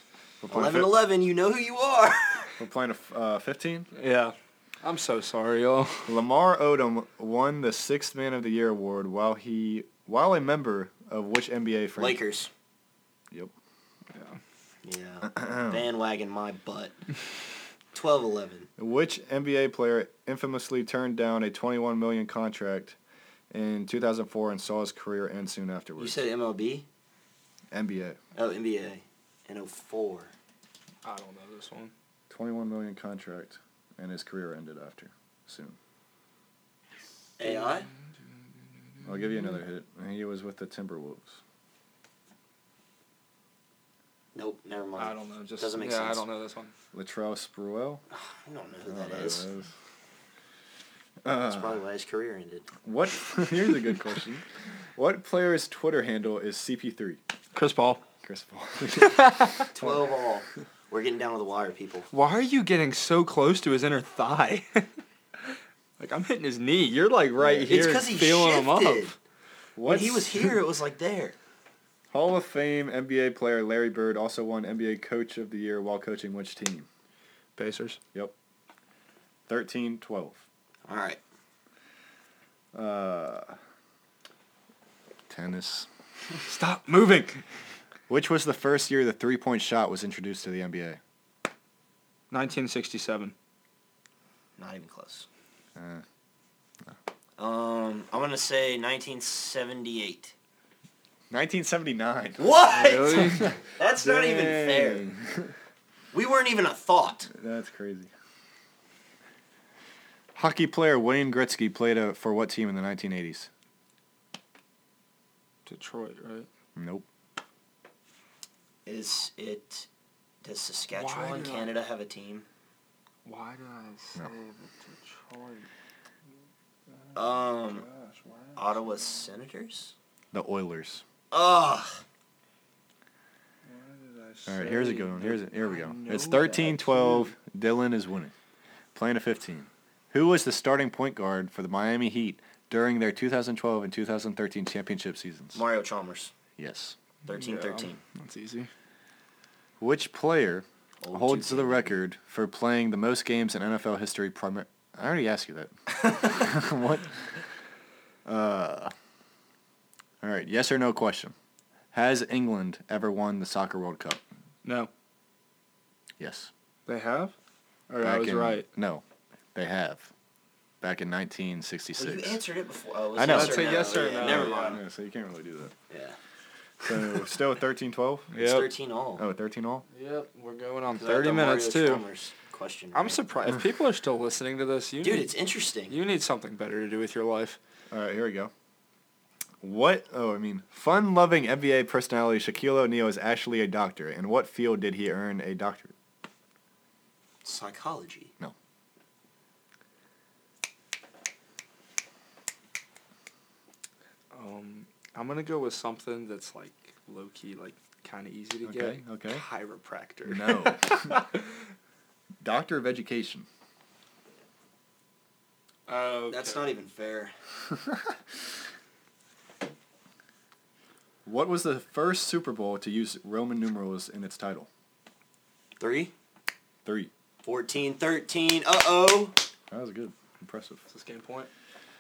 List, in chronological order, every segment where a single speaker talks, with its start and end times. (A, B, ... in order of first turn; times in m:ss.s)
0:00.4-0:00.9 A
0:00.5-0:02.6 B
0:02.6-0:03.9 A
0:04.0-0:06.1 C
0:06.1-0:12.2 A
0:12.0-0:12.5 B
0:14.1-0:14.4 C
0:14.8-0:17.0 B
0:15.2-0:15.8 A
0:17.9-0:18.7 B
0:18.8-0:23.0 A
0:23.5-0:26.2 A
0:26.0-0:26.9 B
0:27.7-0:28.2 A
0:28.4-0:30.3 B
0:31.0-0:31.9 C
0:32.3-0:35.8 A
0:37.4-0:37.9 B
0:37.4-0:37.9 C
0:39.0-0:39.4 C
0:39.0-0:41.4 A
0:44.4-0:46.3 B
0:45.0-0:46.7 C
0:46.9-0:48.0 A
0:48.1-0:49.4 B
0:48.9-0:49.7 A
0:51.2-0:51.8 A
0:51.4-0:52.7 B
0:52.8-0:54.4 A
0:55.0-0:57.2 A
0:57.5-0:58.0 C
0:58.2-0:59.9 A
0:58.9-0:59.7 C
0:59.7-1:02.1 B
1:02.1-1:04.9 C
1:05.4-1:09.1 C
1:07.4-1:09.1 B
1:09.8-1:10.6 A
1:09.8-1:11.4 B
1:12.1-1:16.9 A
1:17.6-1:18.0 C
1:19.5-1:20.4 A
1:20.9-1:21.2 B
1:22.7-1:23.6 A
1:25.3-1:25.9 A
1:26.4-1:27.4 C
1:28.1-1:31.0 A
1:32.3-1:33.3 C
1:34.6-1:35.3 B
1:35.8-1:36.0 A
1:37.4-1:40.4 B
1:41.3-1:42.4 A
1:42.4-1:45.1 B
1:42.7-1:43.6 C
1:43.2-1:45.6 A
1:46.1-1:47.3 B
1:47.3-1:48.1 A
1:50.4-1:53.5 A
1:55.6-1:56.5 C
1:56.8-1:57.1 A
1:58.9-1:59.9 B
2:00.4-2:02.4 B
2:01.0-2:01.7 C
2:03.2-2:05.6 C
2:07.1-2:07.9 B
2:07.8-2:08.8 C
2:08.6-2:09.9 B
2:10.3-2:11.0 A
2:11.3-2:12.0 B
2:13.7-2:17.3 C
2:14.4-2:18.3 A
2:18.9-2:25.6 A
2:25.5-2:26.3 B
2:26.6-2:27.0 A
2:27.2-2:28.0 B
2:27.3-2:28.7 C
2:29.8-2:37.3 A
2:31.0-2:32.0 B
2:38.2-2:38.9 A
2:40.2-2:41.4 A
2:41.9-2:44.2 A
2:44.6-2:44.9 C
2:46.2-2:46.5 A
2:46.9-2:47.3 C
2:47.9-2:48.6 C
2:48.0-2:49.0 A
2:49.6-2:50.1 A
2:50.8-2:52.4 A
2:52.0-2:54.8 B
2:53.2-2:55.7 A
2:53.2-2:54.8 C
2:55.9-2:56.2 B
2:56.8-2:58.3 A
2:56.9-2:57.2 B
2:58.3-2:58.7 C
2:58.4-2:59.2 B
2:59.2-2:59.8 A
2:59.9-3:02.0 C
3:01.0-3:03.2 B
3:02.9-3:05.3 C
3:05.0-3:06.0 B
3:05.9-3:07.6 C
3:07.9-3:08.5 A
3:09.6-3:15.9 A
3:17.4-3:18.3 B
3:24.3-3:31.4 C
3:28.6-3:29.4 A
3:30.3-3:31.2 A
3:32.4-3:33.5 A
3:35.9-3:36.7 C
3:36.3-3:37.4 B
3:41.2-3:44.7 A
3:45.8-3:46.1 B
3:46.8-3:47.1 A
3:47.4-3:49.4 B
3:49.7-3:50.8 A
3:50.9-3:51.5 C